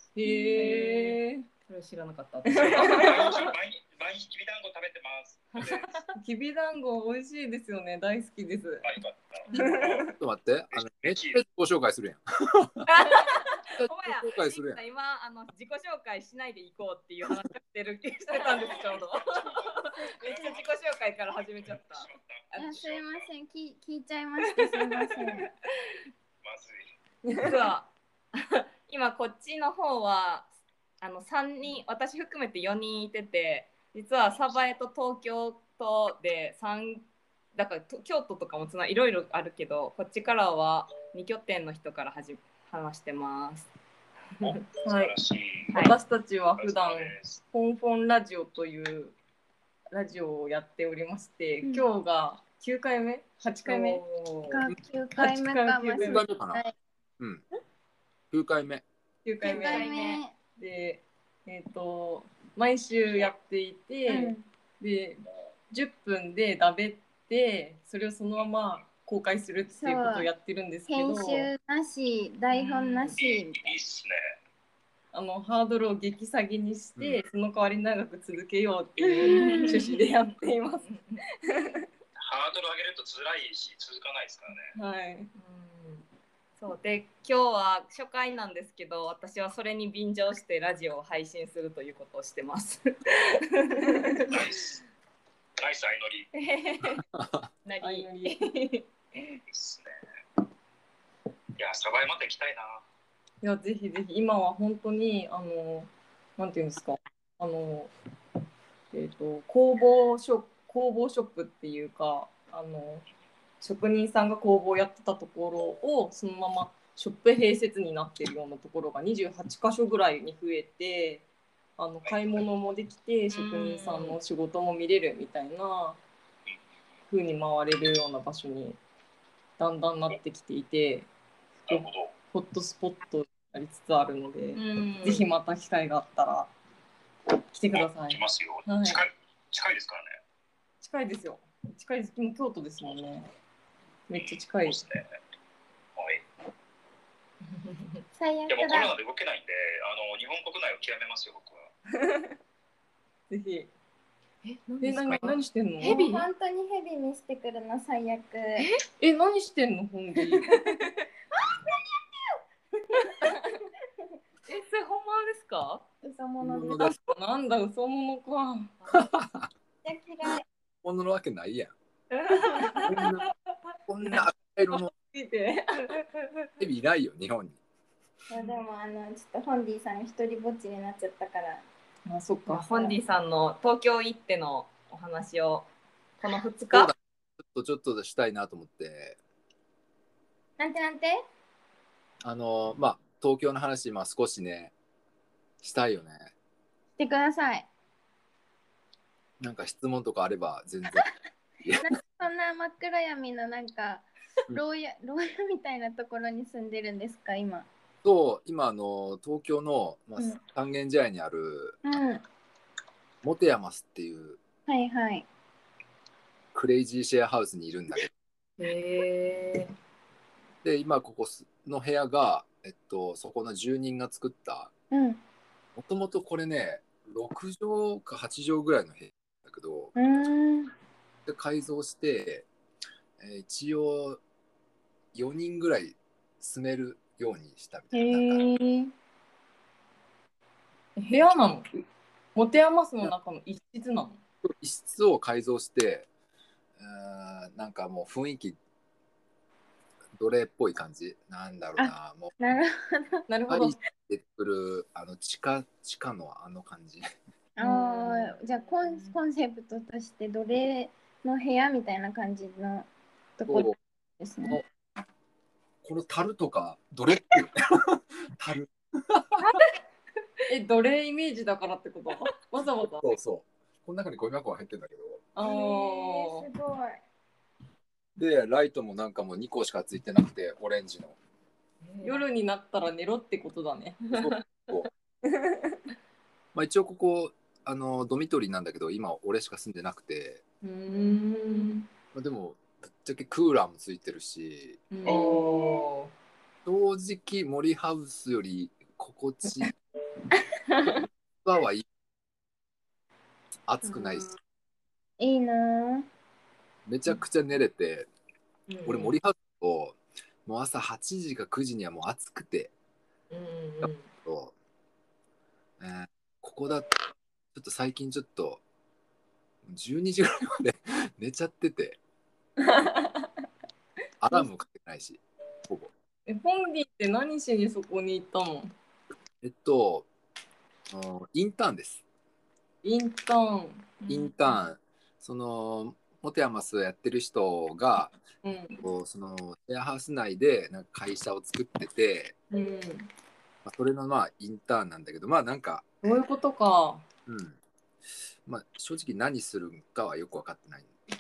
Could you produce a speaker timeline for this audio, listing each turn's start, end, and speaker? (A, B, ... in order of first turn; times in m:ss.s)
0:00.2-0:01.5 A
0:00.3-0:00.9 B
0:00.6-0:03.5 C
0:02.5-0:05.9 D
0:02.5-0:03.4 A
0:05.5-0:06.1 C
0:06.2-0:08.9 A
0:08.8-0:10.2 D
0:09.5-0:10.1 A
0:10.2-0:12.9 E
0:10.8-0:11.4 D
0:12.9-0:22.1 C
0:13.8-0:14.8 E
0:18.3-0:23.3 D
0:22.6-0:25.5 B
0:24.5-0:25.5 C
0:26.4-0:26.8 D
0:27.3-0:27.7 A
0:27.4-0:43.7 C
0:44.4-0:45.8 D
0:44.8-0:45.2 A
0:45.7-0:49.2 A
0:46.6-0:47.4 D
0:49.9-0:54.0 A
0:53.6-0:54.6 C
0:54.5-0:56.7 B
0:55.2-0:56.3 A
0:56.0-0:56.6 E
0:58.3-0:58.8 E
0:59.2-1:11.5 A
0:59.4-1:00.3 B
0:59.4-1:00.2 C
1:04.1-1:04.4 B
1:09.8-1:10.3 B
1:10.9-1:13.8 B
1:12.5-1:13.2 C
1:13.1-1:14.3 D
1:15.1-1:21.9 A
1:17.0-1:17.2 E
1:19.2-1:20.0 C
1:19.2-1:19.8 B
1:20.9-1:21.2 C
1:22.2-1:24.7 D
1:24.8-1:25.3 A
1:25.4-1:26.1 C
1:26.6-1:34.3 C
1:34.3-1:34.8 D
1:35.6-1:36.3 D
1:36.4-1:37.0 C
1:37.1-1:37.5 E
1:37.6-1:39.4 C
1:37.8-1:38.5 A
1:39.5-1:39.9 D
1:41.6-1:42.8 D
1:43.4-1:47.9 A
1:48.9-1:53.0 A
1:53.6-2:01.3 A
2:01.8-2:06.0 A
2:03.3-2:04.2 C
2:07.1-2:08.8 A
2:09.6-2:11.1 A
2:11.7-2:12.1 D
2:11.7-2:16.5 A
2:14.6-2:15.2 C
2:17.5-2:19.1 A
2:17.7-2:20.2 D
2:20.8-2:23.3 A
2:24.1-2:24.8 A
2:24.2-2:25.1 D
2:26.0-2:26.2 D
2:28.2-2:29.0 B
2:28.5-2:31.7 D
2:31.9-2:32.4 A
2:33.3-2:33.7 A
2:34.4-2:36.2 C
2:34.8-2:36.2 A
2:35.8-2:38.7 B
2:39.0-2:40.6 A
2:40.4-2:40.7 C
2:41.4-2:42.0 B
2:44.5-2:45.8 C
2:46.0-2:47.0 B
2:46.4-2:47.0 E
2:47.0-2:48.8 A
2:48.9-2:49.5 E
2:49.8-2:50.4 B
2:50.8-2:51.7 E
2:52.1-2:53.0 C
2:52.8-2:53.3 E
2:53.9-2:54.9 E
2:54.7-2:56.1 A
2:56.6-2:57.6 E
2:58.3-3:01.6 B
3:02.1-3:02.6 A
3:02.5-3:05.7 C
3:06.2-3:06.9 C
3:06.7-3:09.2 E
3:10.6-3:11.2 B
3:12.2-3:14.7 E
3:15.6-3:16.3 E
3:17.0-3:17.7 B
3:19.4-3:21.1 E
3:21.6-3:22.0 E
3:21.8-3:27.7 B
3:28.0-3:31.8 E
3:31.8-3:32.2 B
3:33.2-3:34.4 E
3:34.7-3:35.3 B
3:36.5-3:38.1 E
3:38.6-3:39.7 C
3:40.6-3:44.7 E
3:44.9-3:45.2 B
3:45.8-3:49.9 E
3:50.0-3:50.7 B
3:51.3-3:52.5 E
3:53.2-3:54.2 E
3:55.1-3:58.5 E
3:57.9-3:58.9 A
4:01.0-4:01.8 A
4:02.4-4:04.2 A
4:04.4-4:06.1 E
4:06.8-4:08.6 E
4:10.2-4:12.3 E
4:11.8-4:13.3 B
4:13.3-4:13.8 A
4:13.5-4:17.1 E
4:17.6-4:24.6 B
4:17.6-4:18.4 A
4:18.5-4:19.2 C
4:23.5-4:23.8 E
4:25.8-4:29.5 E
4:29.4-4:29.7 C
4:30.5-4:33.1 A
4:33.0-4:35.2 E
4:35.4-4:36.5 A
4:35.4-4:37.0 B
4:38.2-4:41.2 E
4:41.8-4:42.2 C
4:42.0-4:44.0 A
4:44.1-4:44.4 C
4:44.1-4:44.9 E
4:45.2-4:45.8 A
4:46.5-4:50.4 E
4:50.6-4:51.9 A
4:50.9-4:51.7 C
4:52.1-4:54.8 E
4:54.9-4:55.8 A
4:55.0-4:56.1 C
4:56.6-4:59.7 E
5:01.0-5:01.9 E
5:03.7-5:04.3 E
5:05.2-5:06.1 B
5:06.9-5:08.1 E
5:08.7-5:09.2 C
5:08.9-5:12.7 E
5:13.3-5:14.1 C
5:13.8-5:14.5 E
5:15.8-5:17.0 E
5:17.5-5:18.6 E
5:19.6-5:22.0 E
5:22.6-5:23.3 A
5:24.2-5:25.9 E
5:26.3-5:28.7 A
5:29.4-5:30.1 E
5:30.9-5:32.0 E
5:32.8-5:34.0 A
5:34.0-5:34.5 C
5:34.1-5:38.1 E
5:38.4-5:38.8 A
5:38.8-5:42.4 E
5:42.5-5:43.1 A
5:43.6-5:46.0 E
5:46.0-5:47.1 A
5:47.3-5:47.6 E
5:48.4-5:50.9 E